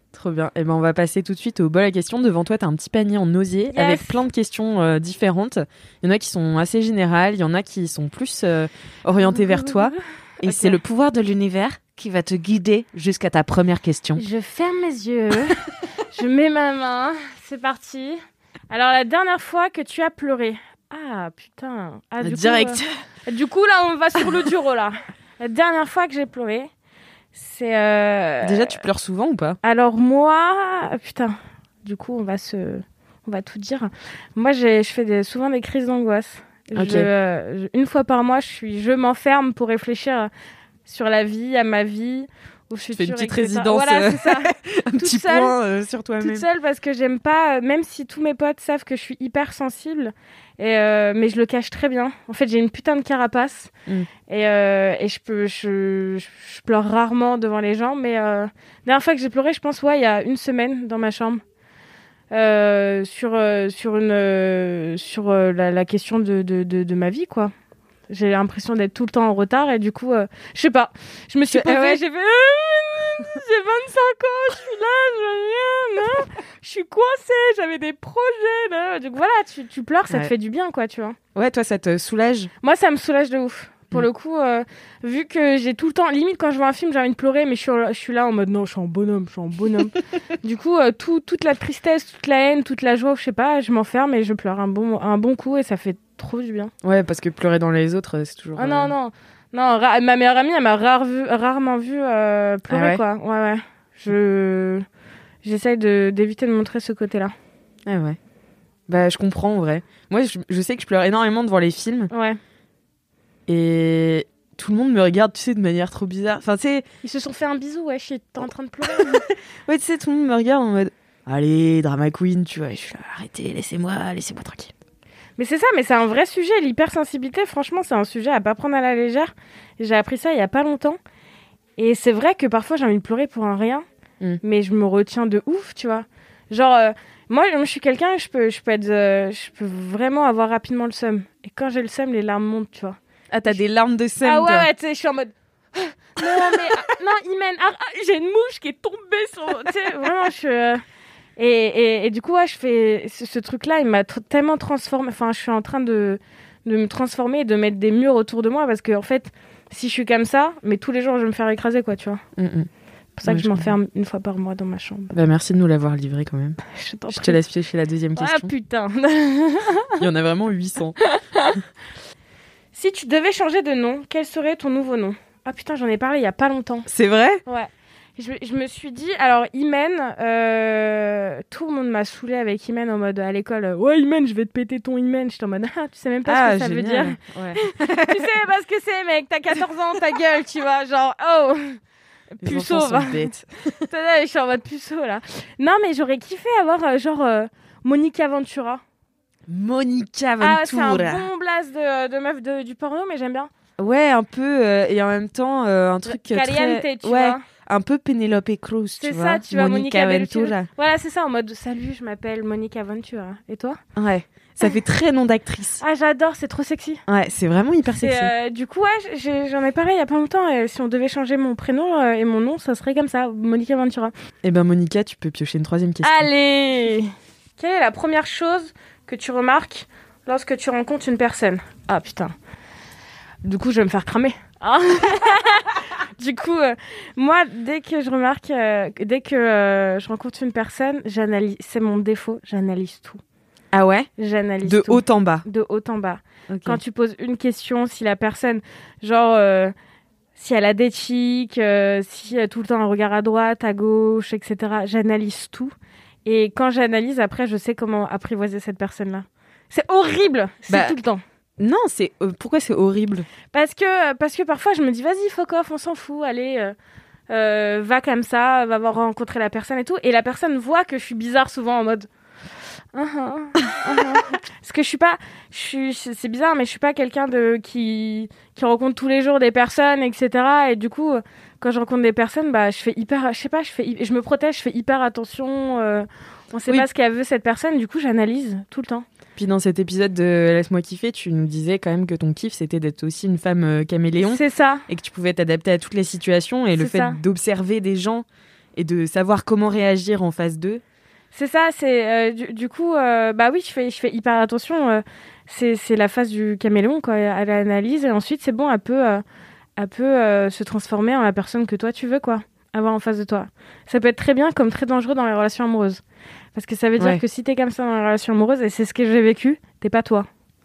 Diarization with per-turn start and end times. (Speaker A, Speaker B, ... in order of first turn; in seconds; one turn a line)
Speaker A: 0.1-14.2
Speaker B: 3.7-4.2
Speaker B: 9.2-10.8
Speaker B: 14.2-15.6
Speaker B: 16.1-26.7
Speaker A: 22.2-22.9
Speaker B: 27.3-28.8
Speaker A: 28.4-29.6
Speaker B: 29.6-40.3
Speaker A: 36.8-37.1
Speaker B: 40.9-45.6
Speaker A: 42.9-46.5
Speaker B: 46.2-53.7
Speaker B: 54.3-61.4
Speaker B: 62.3-67.5
Speaker B: 68.1-81.2
Speaker A: 71.5-72.0
Speaker A: 81.3-82.5
Speaker B: 82.6-96.7
Speaker A: 96.8-98.9
Speaker B: 98.6-104.9
Speaker A: 102.7-103.0
Speaker B: 105.4-107.3
Speaker A: 107.9-108.2
Speaker A: 108.9-112.1
Speaker B: 112.1-112.4
Speaker A: 113.5-116.8
Speaker B: 117.0-119.2
Speaker A: 118.9-124.7
Speaker B: 125.4-131.0
Speaker B: 131.8-133.8
Speaker B: 134.4-143.6
Speaker A: 143.3-144.7
Speaker B: 144.2-150.8
Speaker A: 146.2-146.8
Speaker B: 151.4-162.2
Speaker A: 162.4-162.7
Speaker B: 163.2-165.2
Speaker A: 163.2-163.7
Speaker A: 165.1-168.5
Speaker B: 166.7-167.4
Speaker B: 168.2-170.0
Speaker A: 170.0-171.0
Speaker B: 171.1-171.5
Speaker B: 172.8-176.9
Speaker A: 176.9-177.4
Speaker B: 177.5-191.8
Speaker A: 186.3-188.3
Speaker B: 192.4-193.3
Speaker A: 192.4-193.9
Speaker B: 193.9-198.8
Speaker A: 199.5-201.3
Speaker B: 200.4-203.5
Speaker A: 203.8-210.7
Speaker B: 206.1-207.4
Speaker B: 209.0-213.8
Speaker A: 214.0-215.8
Speaker B: 215.8-217.0
Speaker A: 217.1-218.3
Speaker B: 217.9-224.1
Speaker A: 224.4-226.3
Speaker B: 226.0-232.3
Speaker B: 233.4-243.2
Speaker A: 243.7-244.1
Speaker B: 244.2-249.7
Speaker A: 244.6-245.4
Speaker A: 246.5-246.8
Speaker B: 250.4-255.7
Speaker B: 256.2-261.2
Speaker A: 260.7-261.0
Speaker A: 261.6-263.3
Speaker B: 263.5-266.8
Speaker B: 267.3-272.1
Speaker B: 272.9-289.1
Speaker A: 289.4-298.2
Speaker B: 294.3-294.9
Speaker B: 296.8-297.2
Speaker A: 298.8-300.8
Speaker B: 301.3-309.2
Speaker B: 309.8-316.0
Speaker B: 316.6-320.3